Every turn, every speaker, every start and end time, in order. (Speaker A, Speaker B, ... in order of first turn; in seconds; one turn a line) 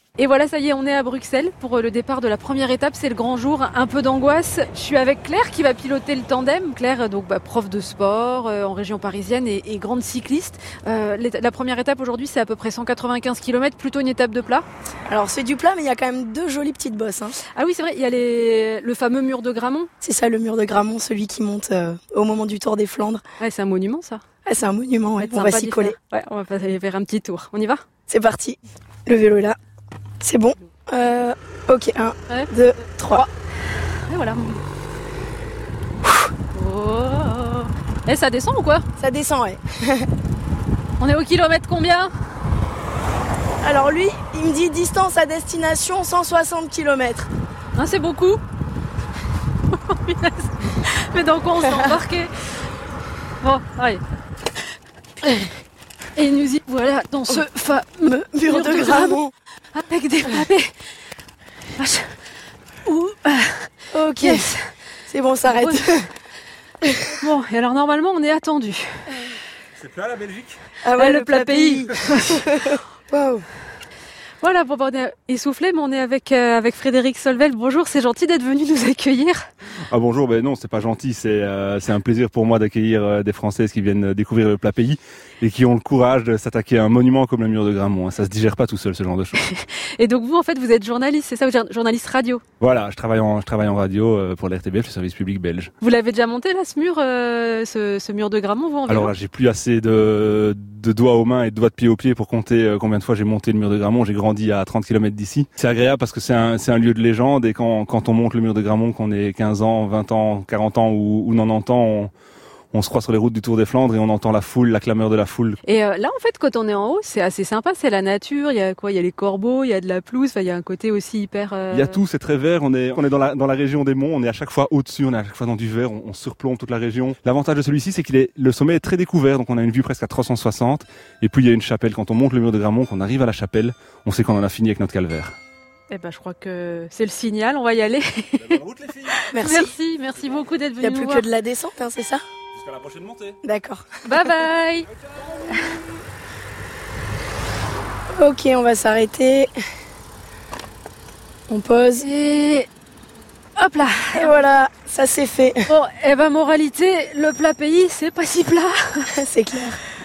Speaker A: 0.2-14.7
Speaker B: 15.1-17.4
Speaker A: 17.5-19.9
Speaker B: 20.0-23.2
Speaker A: 23.4-24.2
Speaker B: 24.4-25.9
Speaker A: 25.2-27.8
Speaker B: 28.1-29.6
Speaker B: 30.2-33.2
Speaker A: 34.0-34.6
Speaker A: 36.5-38.9
Speaker B: 39.0-40.1
Speaker A: 41.0-42.1
Speaker B: 43.6-47.3
Speaker A: 47.8-48.4
Speaker A: 49.8-52.3
Speaker A: 53.4-54.0
Speaker A: 56.1-59.2
Speaker B: 58.0-59.3
Speaker A: 59.7-60.7
Speaker A: 61.8-62.1
Speaker A: 62.9-63.6
Speaker B: 63.9-64.5
Speaker A: 64.2-64.5
Speaker B: 65.1-66.1
Speaker A: 65.5-65.8
Speaker A: 67.1-69.0
Speaker C: 69.8-70.6
Speaker B: 70.8-73.4
Speaker A: 71.0-72.4
Speaker A: 74.4-79.4
Speaker C: 79.9-89.4
Speaker A: 89.3-92.4
Speaker C: 92.6-95.7
Speaker A: 95.8-99.1
Speaker C: 98.9-112.1
Speaker C: 112.7-115.6
Speaker A: 115.6-122.0
Speaker C: 121.7-135.3
Speaker A: 135.9-138.6
Speaker C: 138.4-139.3
Speaker A: 139.2-141.3
Speaker B: 139.3-139.7
Speaker B: 140.8-142.2
Speaker C: 142.5-143.4
Speaker B: 143.4-143.8
Speaker A: 144.0-144.9
Speaker B: 148.1-149.5
Speaker B: 151.5-152.1
Speaker A: 152.0-152.7
Speaker A: 153.6-154.3
Speaker B: 154.1-155.7
Speaker A: 155.7-159.1
Speaker B: 159.1-159.8